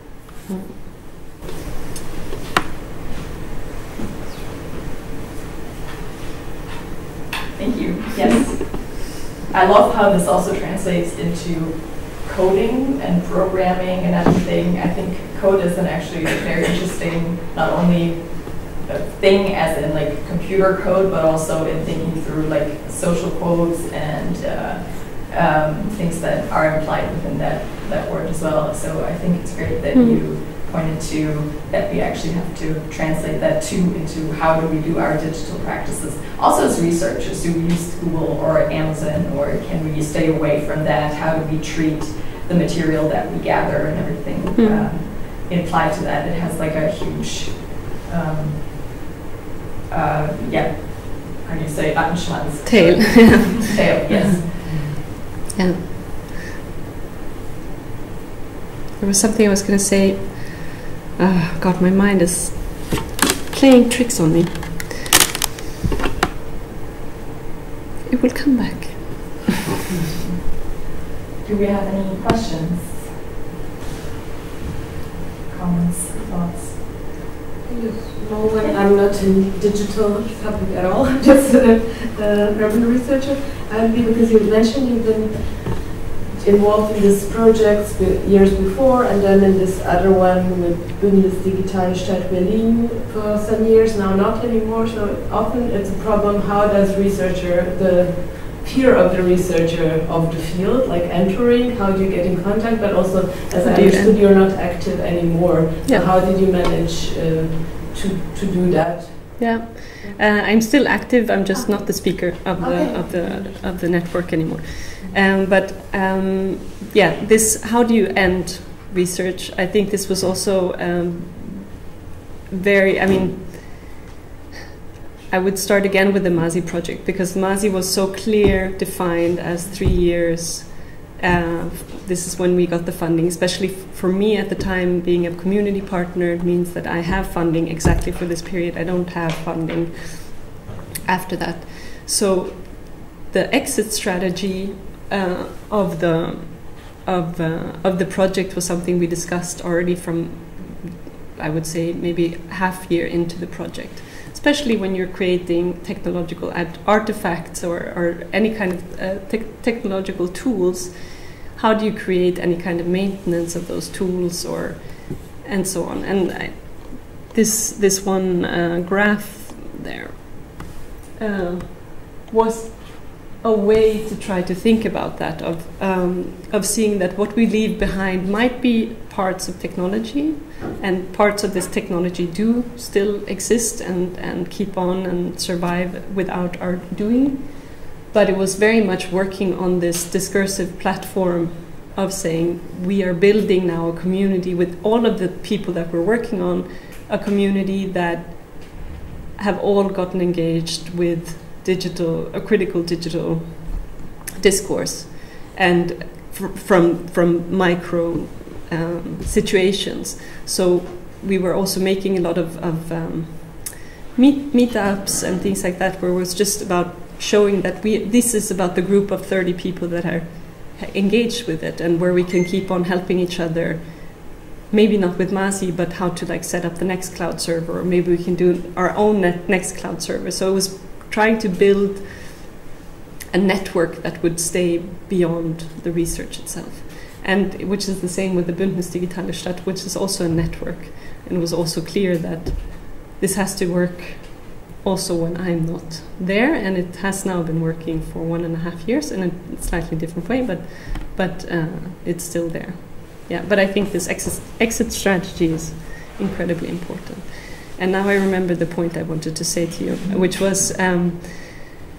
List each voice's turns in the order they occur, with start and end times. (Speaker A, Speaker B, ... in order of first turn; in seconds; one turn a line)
Speaker A: 0.5-0.8
Speaker B: 7.5-49.0
Speaker A: 29.9-30.2
Speaker A: 44.5-44.9
Speaker B: 49.9-54.7
Speaker A: 52.6-53.6
Speaker A: 55.5-55.9
Speaker A: 59.0-64.9
Speaker A: 68.0-69.5
Speaker B: 71.4-73.1
Speaker B: 75.5-77.0
Speaker C: 77.7-110.2
Speaker A: 103.6-104.2
Speaker A: 109.4-121.9
Speaker C: 111.5-113.8
Speaker A: 122.5-124.0
Speaker A: 125.3-232.5
Speaker A: 233.3-261.8